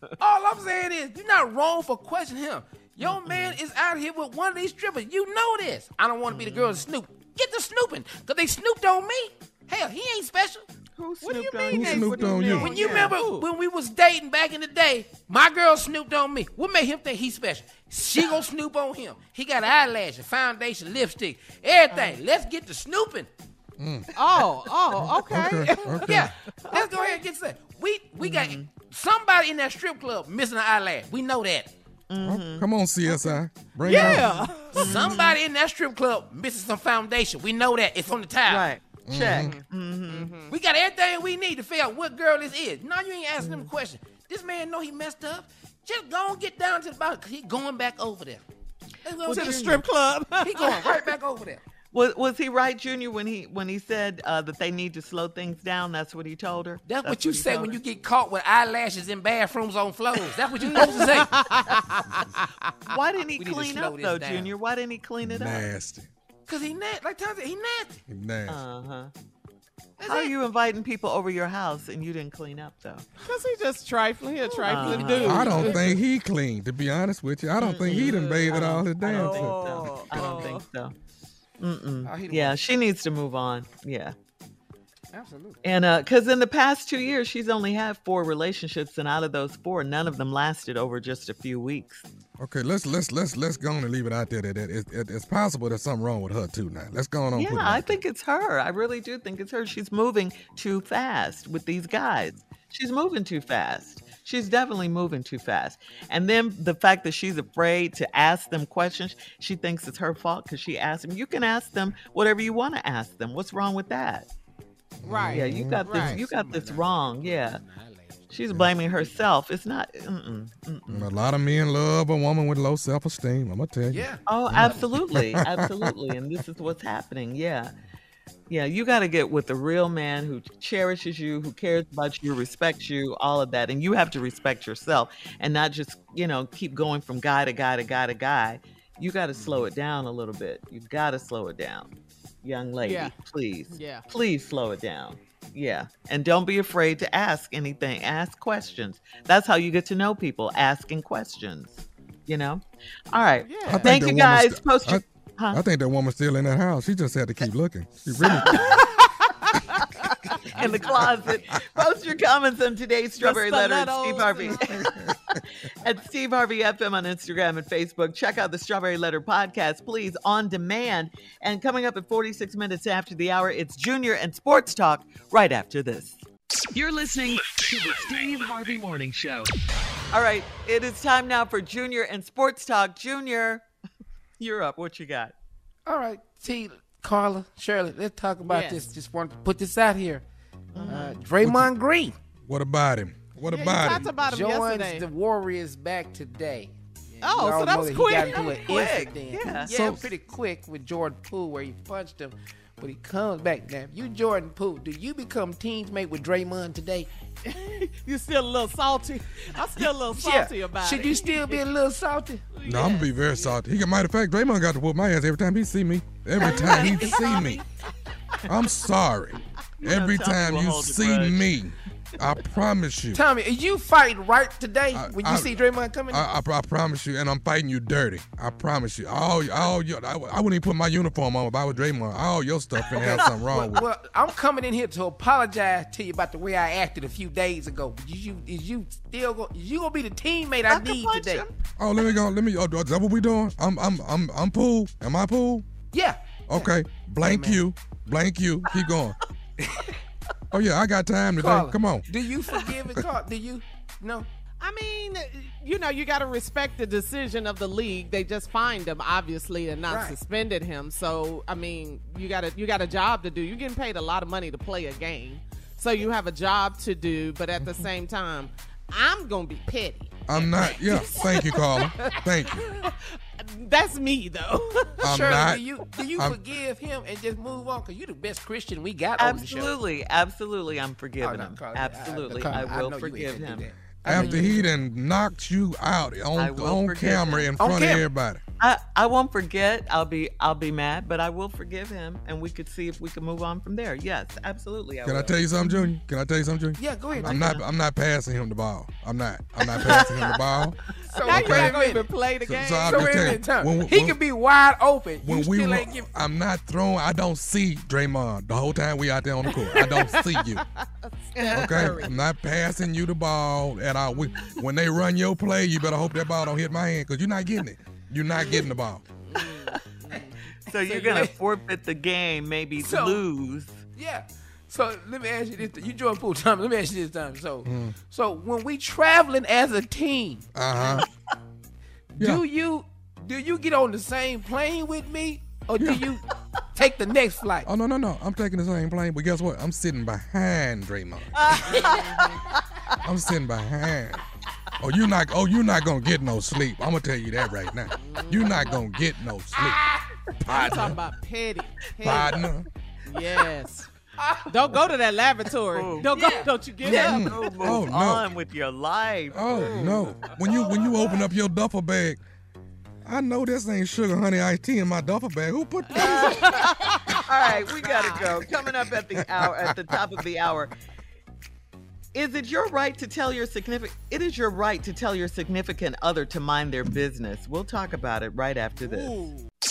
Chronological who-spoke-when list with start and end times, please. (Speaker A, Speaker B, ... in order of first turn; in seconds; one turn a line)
Speaker A: 0.2-10.7
Speaker B: 3.0-3.6
Speaker B: 6.3-6.8
Speaker B: 10.9-13.1
Speaker C: 11.2-13.5
Speaker D: 11.7-12.7
Speaker A: 12.6-23.3
Speaker C: 21.9-22.2
Speaker D: 23.8-24.1
Speaker C: 24.1-27.2
Speaker D: 25.0-26.2
Speaker A: 25.9-31.7
Speaker B: 28.2-28.7
Speaker B: 32.1-32.7
Speaker D: 32.2-34.4
Speaker C: 33.8-35.2
Speaker B: 33.9-35.4
Speaker A: 34.5-38.7
Speaker B: 38.5-40.3
Speaker D: 39.1-39.5
Speaker C: 39.3-40.5
Speaker A: 40.5-48.4
Speaker A: 49.0-49.7
Speaker C: 49.2-51.1
Speaker B: 49.2-49.8
Speaker A: 50.4-51.6
Speaker B: 51.9-57.8
Speaker A: 56.8-61.3
Speaker C: 60.6-62.4
Speaker B: 62.9-65.7
Speaker A: 63.4-64.5
Speaker D: 65.2-66.1
Speaker A: 66.5-68.0
Speaker D: 68.1-68.6
Speaker B: 68.5-69.1
Speaker A: 70.0-70.3
Speaker B: 70.0-73.1
Speaker C: 73.2-76.0
Speaker A: 74.5-75.1
Speaker B: 74.7-75.9
Speaker D: 75.2-80.4
Speaker B: 77.6-80.9
Speaker C: 77.9-80.7
Speaker B: 81.6-84.1
Speaker A: 82.0-82.6
Speaker A: 85.1-85.6
Speaker B: 85.6-92.0
Speaker D: 92.4-97.9
Speaker B: 97.3-114.3
Speaker D: 115.0-116.0
Speaker C: 115.0-116.2
Speaker B: 115.3-117.6
Speaker A: 116.0-119.3
Speaker B: 118.3-121.1
Speaker D: 120.9-125.9
Speaker A: 123.9-124.8
Speaker B: 124.2-127.7
Speaker B: 128.5-141.9
Speaker A: 139.3-139.7
Speaker B: 142.4-155.6
Speaker C: 142.8-143.1
Speaker C: 143.7-144.0
Speaker C: 153.4-154.0
Speaker D: 153.7-158.8
Speaker B: 158.2-158.8
Speaker C: 158.2-159.0
Speaker B: 160.5-165.0
Speaker C: 160.7-160.9
Speaker C: 163.2-164.8
Speaker D: 164.8-165.1
Speaker B: 165.8-176.2
Speaker E: 176.7-179.6
Speaker B: 180.1-183.6
Speaker B: 184.4-185.3
Speaker A: 185.8-190.2
Speaker C: 188.4-188.9
Speaker B: 190.7-191.2
Speaker A: 190.8-192.2
Speaker D: 191.4-191.7
Speaker D: 192.4-194.2
Speaker C: 193.4-195.1
Speaker A: 194.2-207.1
Speaker C: 197.2-199.1
Speaker B: 198.4-200.0
Speaker C: 207.5-211.7
Speaker A: 209.8-212.5
Speaker C: 212.5-213.6
Speaker D: 212.6-217.6
Speaker B: 216.4-217.6
Speaker C: 216.4-217.6
Speaker D: 218.5-223.2
Speaker B: 219.8-221.5
Speaker A: 223.1-226.3
Speaker D: 224.9-225.6
Speaker D: 226.1-233.9
Speaker A: 232.9-241.5
Speaker B: 240.7-241.6
Speaker D: 241.8-245.7
Speaker A: 245.9-247.6
Speaker D: 246.5-249.2
Speaker D: 250.5-252.1
Speaker A: 251.3-254.3
Speaker C: 254.6-275.1
Speaker A: 259.9-260.2
Speaker D: 270.3-272.7
Speaker D: 275.0-276.4
Speaker A: 275.1-279.8
Speaker B: 279.2-284.6
Speaker A: 281.2-284.7
Speaker D: 284.0-288.4
Speaker B: 286.4-287.6
Speaker A: 287.6-288.1
Speaker B: 288.6-295.8
Speaker D: 295.0-300.8
Speaker A: 296.8-297.6
Speaker B: 297.2-297.6
Speaker B: 299.8-300.4
Speaker A: 301.1-302.1
Speaker C: 301.2-303.4
Speaker D: 301.3-301.7
Speaker D: 302.4-304.2
Speaker A: 302.8-306.1
Speaker D: 305.2-310.6
Speaker C: 309.4-310.6
Speaker C: 311.3-312.3
Speaker D: 311.5-319.0
Speaker C: 314.2-314.6
Speaker C: 318.3-318.7
Speaker C: 319.3-320.3
Speaker B: 320.7-323.8
Speaker A: 320.8-321.4
Speaker A: 322.8-323.2
Speaker A: 323.9-330.5
Speaker D: 327.6-328.0
Speaker D: 330.5-331.1
Speaker D: 332.2-332.4
Speaker A: 332.2-337.7
Speaker D: 335.8-336.1
Speaker D: 337.6-341.7
Speaker B: 341.6-342.3
Speaker A: 341.7-342.3
Speaker D: 343.0-344.2
Speaker D: 344.8-349.8
Speaker C: 348.0-348.8
Speaker A: 349.5-350.1
Speaker C: 350.4-352.5
Speaker D: 350.4-351.0
Speaker D: 352.0-352.6
Speaker C: 353.0-353.9
Speaker A: 354.2-354.5
Speaker C: 354.5-357.6
Speaker B: 355.7-356.1
Speaker A: 356.0-357.7
Speaker B: 356.9-360.1
Speaker D: 356.9-358.3
Speaker D: 359.3-362.2
Speaker C: 359.4-361.2
Speaker D: 363.0-366.4
Speaker C: 365.9-368.4
Speaker B: 366.0-366.4
Speaker B: 367.2-370.7
Speaker D: 369.4-369.7
Speaker B: 372.1-379.2
Speaker C: 378.8-379.4